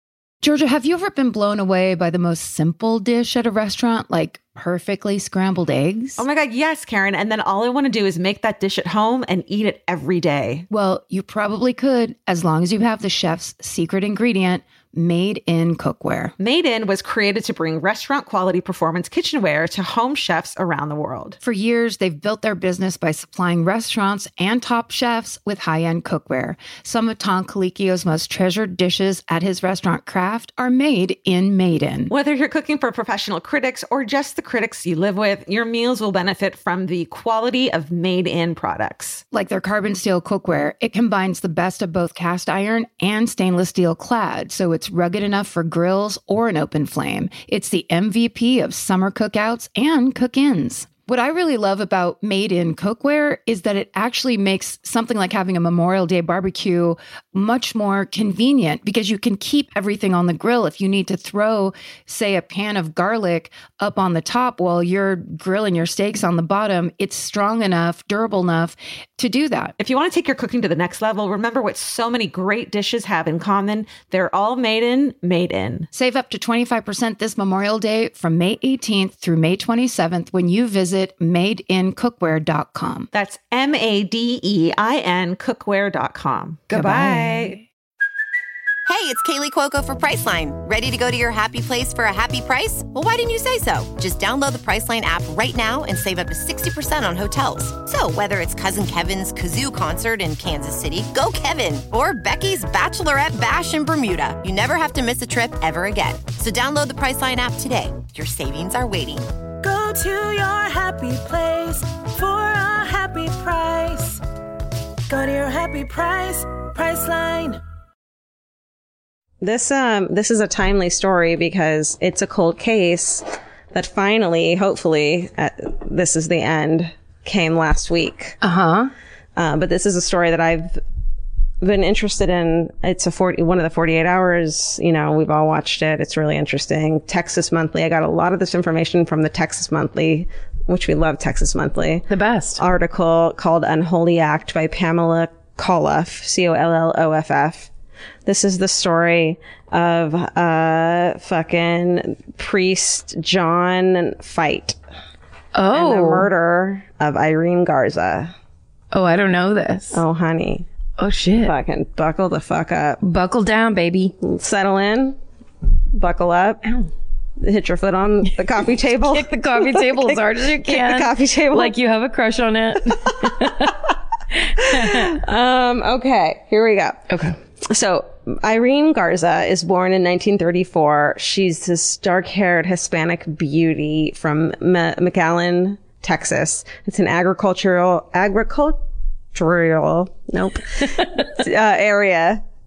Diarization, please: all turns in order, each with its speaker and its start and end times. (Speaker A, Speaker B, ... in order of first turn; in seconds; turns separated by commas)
Speaker A: 0.4-6.2, Speaker B: 6.2-10.7, Speaker A: 10.7-16.3, Speaker B: 16.4-21.4, Speaker A: 21.4-32.1, Speaker B: 32.1-39.2, Speaker A: 39.3-69.8, Speaker B: 69.8-75.9, Speaker A: 75.9-83.1, Speaker B: 83.1-87.6, Speaker A: 86.7-87.3, Speaker C: 88.9-109.3, Speaker D: 109.7-114.2, Speaker D: 115.1-117.6, Speaker E: 119.4-128.4, Speaker F: 128.4-128.9, Speaker E: 129.3-130.8, Speaker E: 131.6-147.7, Speaker F: 142.1-142.6, Speaker E: 148.2-154.8, Speaker F: 155.5-156.3, Speaker E: 155.7-158.3, Speaker F: 158.9-160.0, Speaker E: 159.9-160.7, Speaker F: 161.0-161.5, Speaker E: 161.4-163.0, Speaker F: 163.0-164.1, Speaker E: 164.2-165.2, Speaker E: 165.9-166.6, Speaker E: 167.4-171.7, Speaker F: 169.1-173.8, Speaker F: 174.4-175.2, Speaker E: 174.7-177.1, Speaker F: 177.1-177.3, Speaker E: 177.7-188.8, Speaker E: 189.3-192.4